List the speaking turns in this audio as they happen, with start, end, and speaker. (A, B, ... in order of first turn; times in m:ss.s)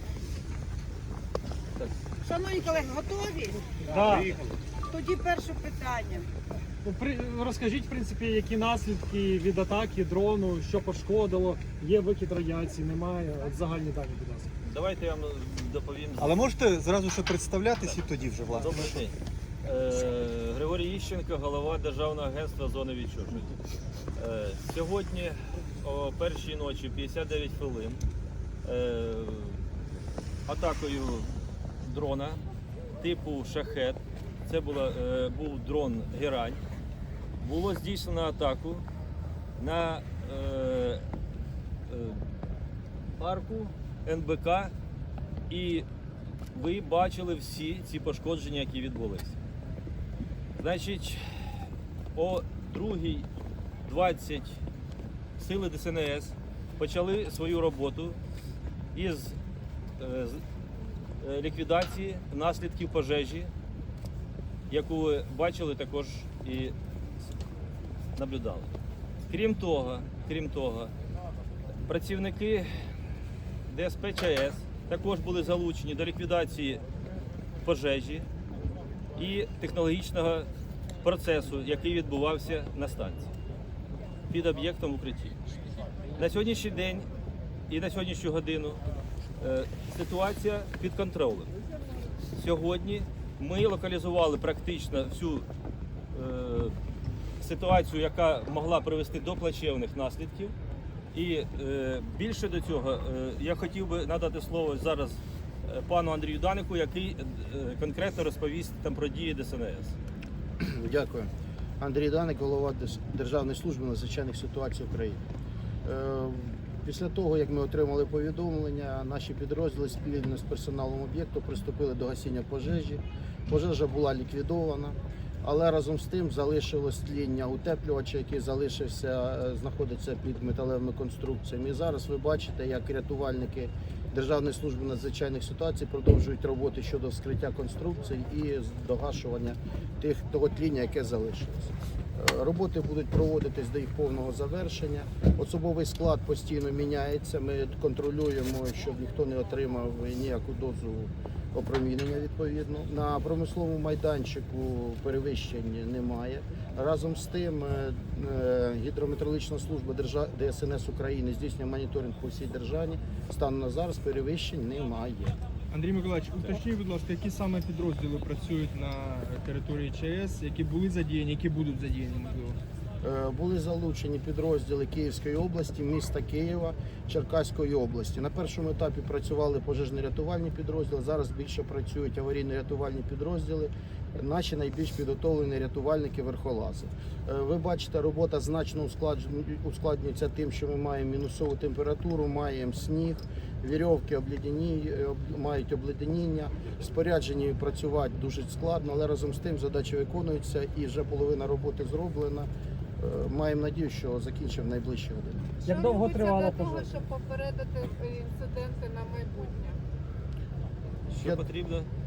0:02.2-0:03.7 A
0:03.8-0:04.4 B
0:04.0-0:04.3 C
0:04.9-0:06.3 A
0:06.8-0:14.5 B
0:14.6-0:16.5 D
0:16.2-0:18.8 C
0:18.5-0:23.5 D
0:24.2-0:28.0 D
0:28.6-0:29.6 D
0:30.4-0:31.3 D
0:31.8-0:32.4 D
0:33.0-0:36.6 D
0:37.4-0:38.8 D
0:39.6-0:41.0 D
0:41.9-0:42.2 D
0:43.1-0:44.7 D
0:45.5-0:45.8 D
0:46.5-0:49.4 D
0:50.6-0:51.6 D
0:52.1-0:53.3 D
0:53.8-0:54.6 D
0:55.4-0:58.2 D
0:58.9-0:59.4 D
1:00.0-1:00.4 D
1:01.2-1:03.5 D
1:04.7-1:06.7 D
1:08.2-1:08.7 D
1:09.3-1:10.9 D
1:11.8-1:12.7 D
1:13.7-1:16.8 D
1:17.6-1:18.3 D
1:19.1-1:20.5 D
1:21.0-1:23.3 D
1:24.3-1:25.3 D
1:26.2-1:27.1 D
1:27.7-1:28.8 D
1:29.4-1:31.5 D
1:32.3-1:35.5 D
1:36.1-1:36.7 D
1:37.4-1:40.5 D
1:41.1-1:50.0 D
1:50.6-1:51.3 E
1:51.8-1:55.2 E
1:55.8-2:45.4 E
2:45.7-2:52.6 F
2:53.0-3:22.5 E
3:23.0-3:25.6 E
3:25.6-3:29.8 G
3:25.6-3:26.9 B
3:31.1-3:31.9 D